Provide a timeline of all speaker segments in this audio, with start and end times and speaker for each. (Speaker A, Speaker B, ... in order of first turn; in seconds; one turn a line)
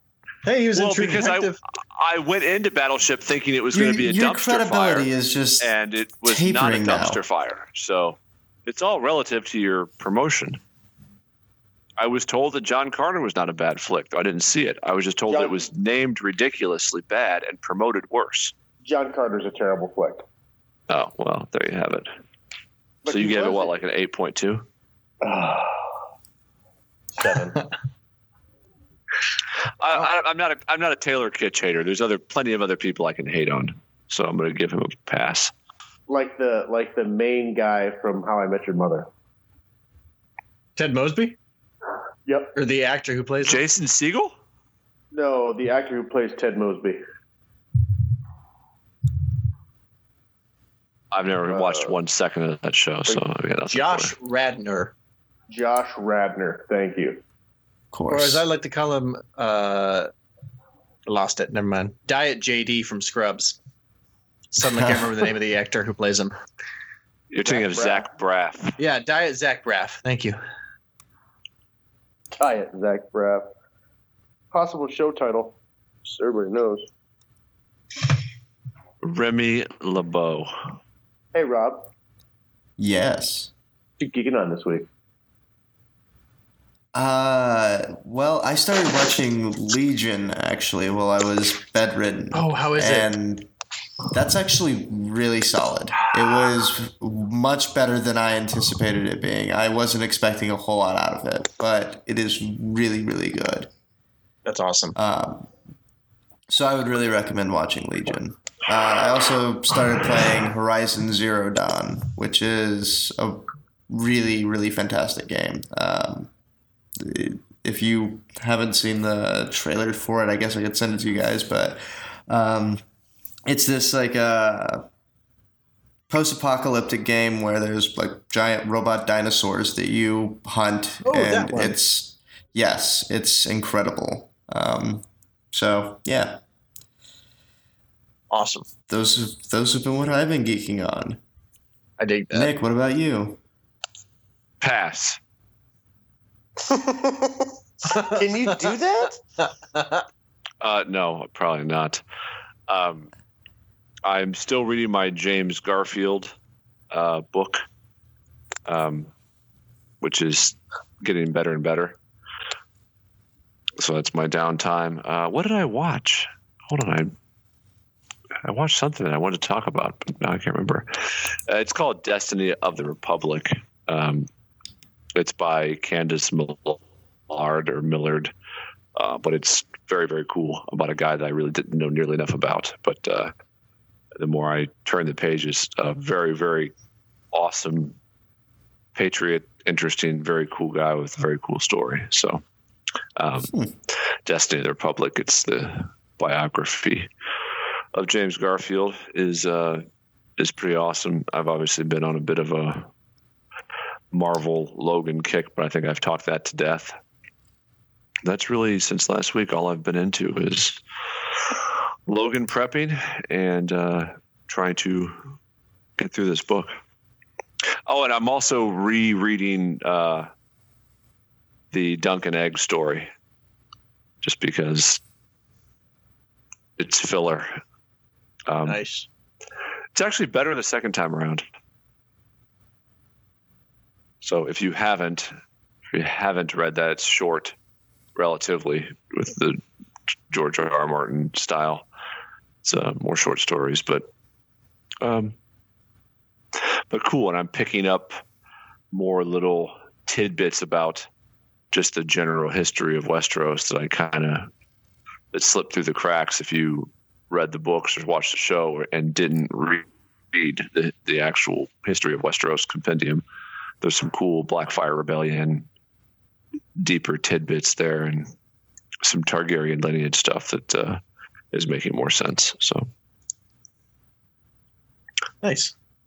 Speaker A: 0.4-1.6
Speaker B: 0.7-5.1
Speaker C: 3.7-5.7
Speaker B: 5.6-10.6
Speaker C: 6.2-7.2
Speaker B: 12.0-18.5
Speaker D: 15.3-15.6
Speaker D: 18.8-20.2
Speaker B: 20.9-22.1
Speaker D: 23.0-23.7
Speaker B: 23.1-24.6
Speaker D: 25.2-25.9
Speaker D: 27.2-27.6
Speaker B: 29.8-35.5
Speaker D: 36.1-39.1
Speaker A: 40.8-41.4
Speaker D: 42.2-42.5
Speaker A: 42.5-43.6
Speaker B: 43.4-44.3
Speaker D: 45.1-47.0
Speaker B: 51.1-54.1
Speaker D: 51.5-51.9
Speaker A: 53.7-54.9
Speaker D: 55.5-57.2
Speaker C: 57.9-58.4
Speaker A: 58.1-60.1
Speaker A: 61.0-63.6
Speaker A: 64.5-66.3
Speaker C: 64.7-65.1
Speaker B: 67.3-68.8
Speaker D: 67.5-68.0
Speaker A: 68.8-70.4
Speaker D: 72.4-73.5
Speaker D: 74.5-76.9
Speaker B: 79.0-80.5
Speaker D: 81.3-81.9
Speaker C: 82.8-83.5
Speaker D: 84.0-84.9
Speaker C: 86.9-93.5
Speaker A: 92.3-93.1
Speaker C: 94.1-103.7
Speaker A: 104.4-105.0
Speaker C: 105.0-105.5
Speaker C: 106.5-116.3
Speaker C: 117.0-122.8
Speaker C: 123.5-124.8
Speaker C: 126.1-136.4
Speaker A: 131.0-131.8
Speaker A: 138.3-138.7
Speaker C: 138.9-141.2
Speaker A: 142.0-142.5
Speaker C: 142.3-143.4
Speaker B: 144.6-145.2
Speaker D: 146.6-149.2
Speaker A: 147.9-148.2
Speaker A: 149.6-150.0
Speaker B: 150.6-152.0
Speaker B: 152.7-153.1
Speaker B: 154.0-156.3
Speaker B: 156.9-157.6
Speaker B: 158.7-159.1
Speaker B: 160.0-162.0
Speaker B: 163.8-167.1
Speaker B: 168.4-174.3
Speaker B: 175.1-178.3
Speaker B: 178.9-183.3
Speaker B: 184.2-186.7
Speaker B: 187.3-188.0
Speaker B: 188.9-192.4
Speaker B: 193.2-193.7
Speaker B: 194.2-197.1
Speaker B: 197.9-199.8
Speaker B: 200.4-202.9
Speaker B: 204.1-206.9
Speaker B: 208.2-210.8
Speaker B: 212.1-215.1
Speaker B: 216.0-216.7
Speaker B: 217.8-220.3
Speaker B: 221.7-223.1
Speaker B: 224.2-225.0
Speaker B: 226.8-227.6
Speaker B: 228.5-228.8
Speaker A: 228.6-229.1
Speaker B: 229.9-231.4
Speaker B: 234.2-235.3
Speaker B: 235.9-237.5
Speaker B: 238.2-239.6
Speaker B: 240.3-241.8
Speaker B: 242.6-244.1
Speaker B: 245.0-245.3
Speaker B: 246.9-248.2
Speaker B: 248.9-251.1
Speaker B: 251.7-254.5
Speaker B: 255.3-263.2
Speaker B: 263.8-265.7
Speaker B: 266.8-268.3
Speaker B: 269.0-271.0
Speaker B: 271.5-272.9
Speaker A: 275.4-275.7